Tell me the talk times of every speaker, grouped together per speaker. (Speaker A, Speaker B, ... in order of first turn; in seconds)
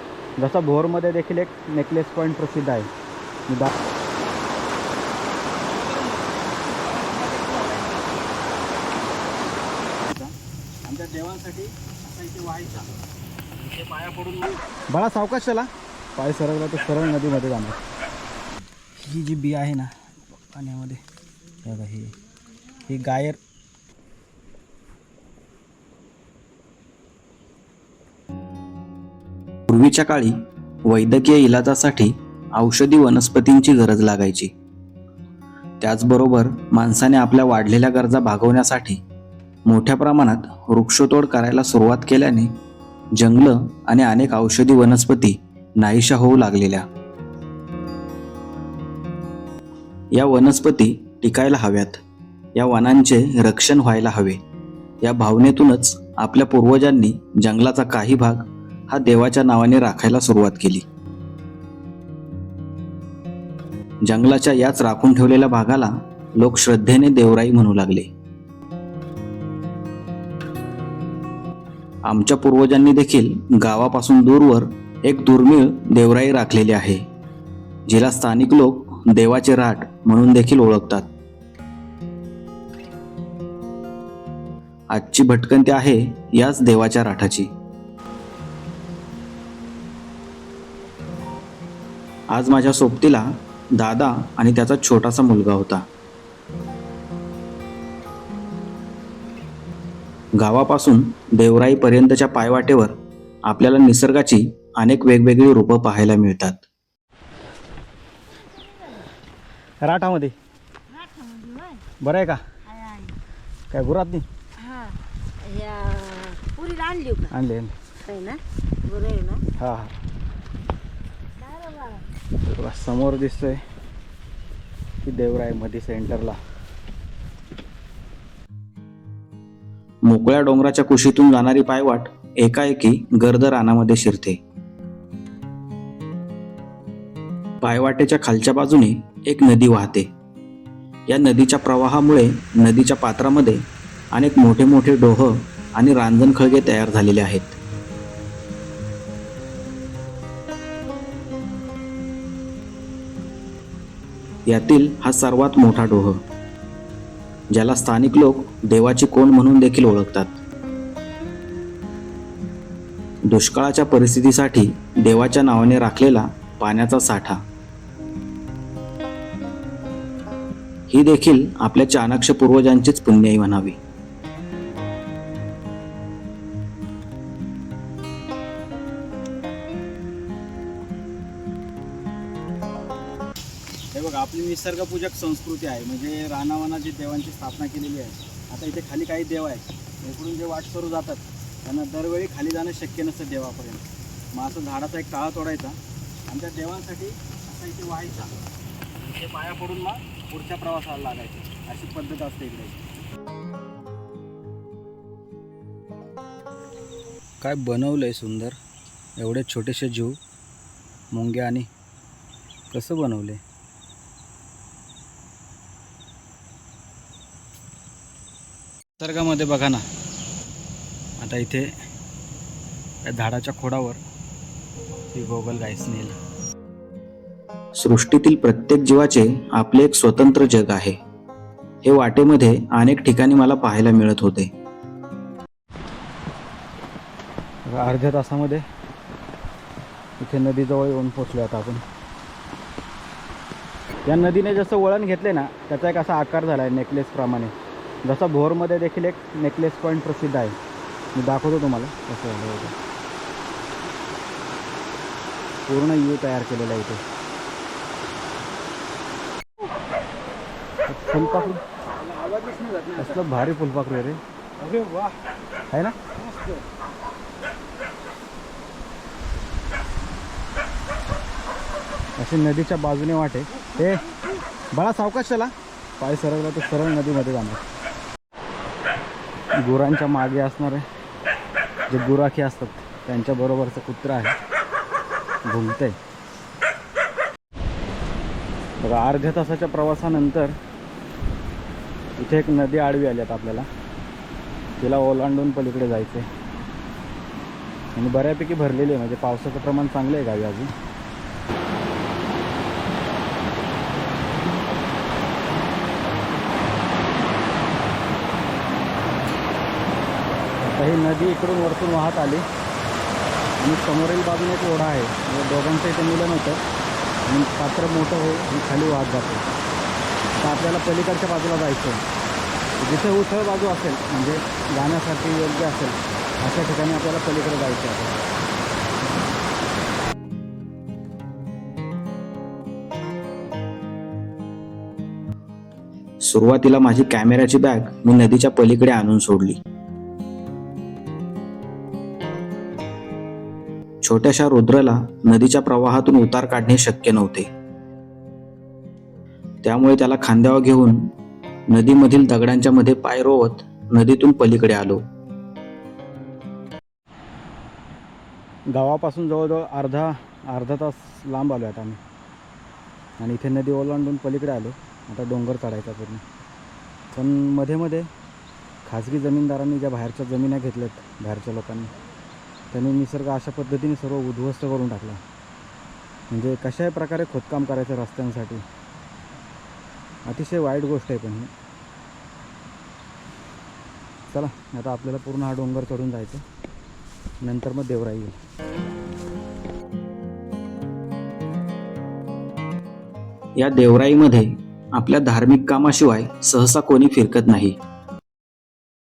Speaker A: 0.4-2.9, 10.0-10.3, 10.8-12.9, 13.6-17.8, 19.0-21.0, 21.6-22.2, 22.9-23.4, 109.8-110.3, 112.0-112.4, 113.7-114.3, 117.3-117.8, 119.6-120.0, 122.5-123.6, 125.0-126.4, 183.9-198.3, 199.0-202.8, 207.4-208.6, 209.2-210.2, 211.1-211.7, 212.7-213.4, 219.0-219.9, 221.2-221.8, 223.1-224.0, 225.1-226.2, 237.7-238.7, 240.2-241.8, 244.1-250.6, 251.2-252.8, 255.7-257.0, 260.9-261.6, 262.4-265.0, 265.7-266.1, 272.2-274.0, 274.7-277.6, 279.6-280.9, 281.9-284.4, 285.4-285.9, 288.8-290.6, 292.2-293.7, 294.8-296.3, 297.9-300.7, 310.6-312.4, 313.6-316.6, 317.2-319.4, 320.4-322.0, 322.8-328.2, 358.7-362.0, 363.2-366.2, 367.1-368.1, 368.9-371.9, 372.7-375.2, 376.3-378.6, 380.2-381.5, 384.3-386.4, 387.4-388.3
Speaker B: 7.2-7.8, 108.6-109.0, 110.9-111.8, 112.7-113.2, 114.6-117.3, 118.0-119.5, 121.4-122.1
Speaker C: 29.7-34.5, 35.8-39.0, 39.7-42.5, 43.1-46.9, 50.1-52.0, 52.5-54.4, 55.0-60.9, 64.0-68.1, 72.0-77.0, 77.9-81.1, 84.9-87.5, 92.3-95.9, 100.4-106.6, 130.0-134.4, 137.6-140.1, 141.1-147.6, 154.5-156.2, 157.5-160.3, 163.2-167.4, 170.9-173.8, 227.7-231.0, 231.8-234.5, 336.2-339.6, 344.0-347.5, 349.6-351.1, 351.7-355.0, 393.6-397.8